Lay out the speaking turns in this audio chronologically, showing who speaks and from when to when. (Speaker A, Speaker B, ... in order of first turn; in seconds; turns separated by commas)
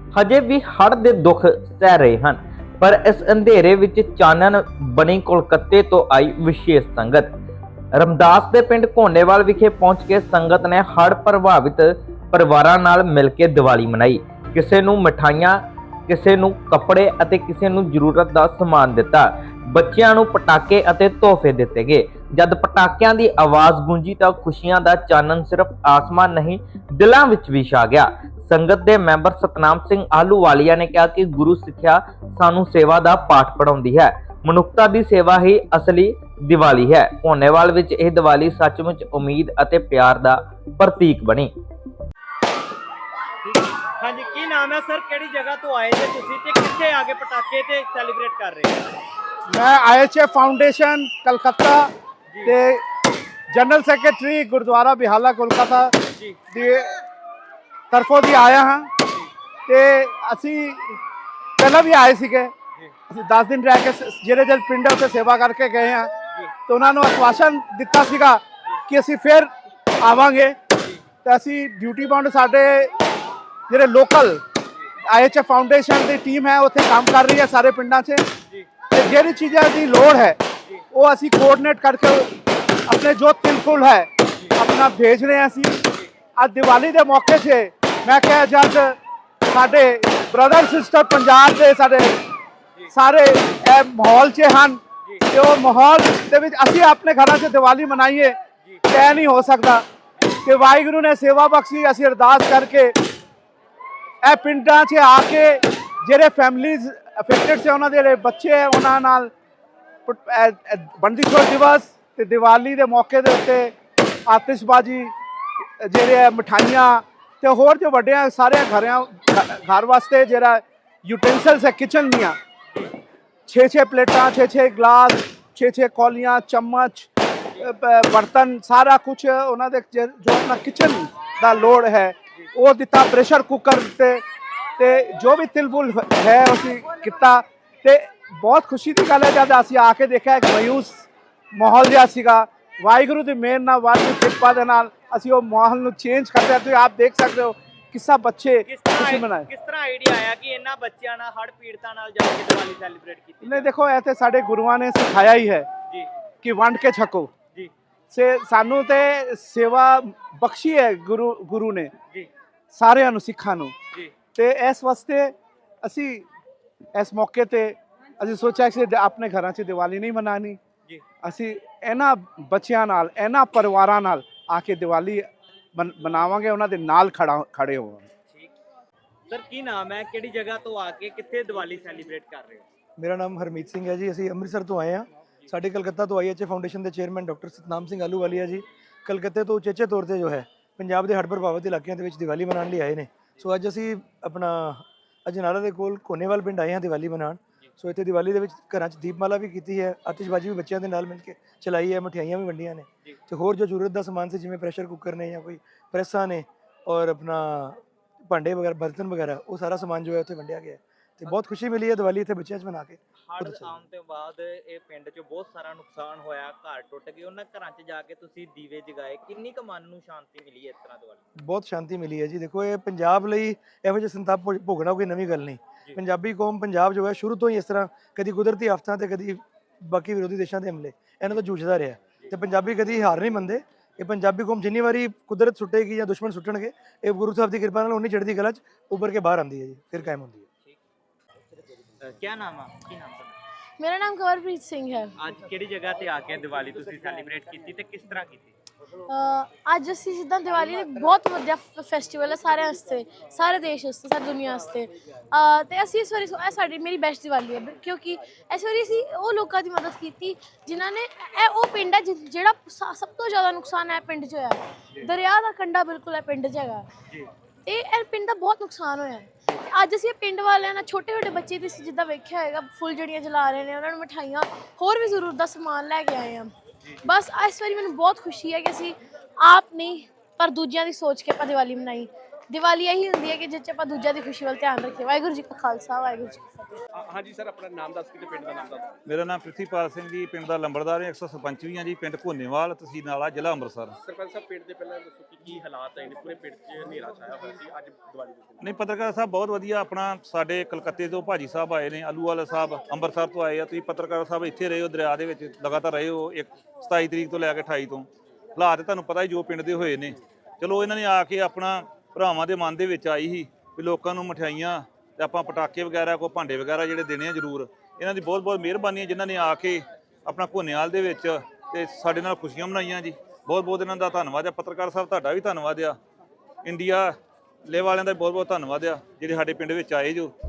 Speaker A: 0.1-7.3, Speaker A: 8.0-41.5, Speaker B: 43.5-48.8, Speaker C: 49.5-51.9, Speaker C: 52.5-52.8, Speaker C: 53.5-56.0, Speaker B: 56.1-56.4, Speaker C: 56.5-56.9, Speaker C: 57.9-58.9, Speaker C: 59.7-61.0, Speaker C: 61.6-62.5, Speaker C: 63.1-66.1, Speaker C: 66.7-69.5, Speaker C: 70.0-70.6, Speaker C: 71.2-72.9, Speaker C: 73.7-74.4, Speaker C: 75.1-78.2, Speaker C: 78.9-80.4, Speaker C: 80.9-85.8, Speaker C: 86.4-89.0, Speaker C: 89.5-92.2, Speaker C: 92.9-98.4, Speaker C: 98.9-99.8, Speaker C: 100.5-103.0, Speaker C: 104.2-109.3, Speaker C: 110.1-113.7, Speaker C: 114.3-115.1, Speaker C: 115.8-122.4, Speaker C: 123.5-134.2, Speaker C: 134.8-149.5, Speaker B: 148.7-153.7, Speaker C: 153.4-155.7, Speaker C: 156.4-157.3, Speaker C: 158.1-161.9, Speaker C: 162.7-163.8, Speaker B: 163.9-164.2, Speaker C: 164.4-165.3, Speaker C: 165.8-166.3, Speaker C: 166.9-170.6, Speaker C: 171.2-175.2, Speaker C: 175.8-178.1, Speaker B: 179.3-182.7, Speaker D: 183.0-213.8, Speaker B: 213.3-221.2, Speaker D: 221.4-240.5, Speaker B: 242.1-243.4, Speaker E: 243.8-245.1, Speaker B: 245.2-248.5, Speaker E: 249.1-266.9, Speaker E: 267.6-286.6, Speaker F: 286.9-289.0, Speaker G: 289.1-294.0, Speaker F: 294.0-298.7, Speaker G: 298.6-326.0, Speaker G: 326.6-327.1, Speaker G: 327.7-330.3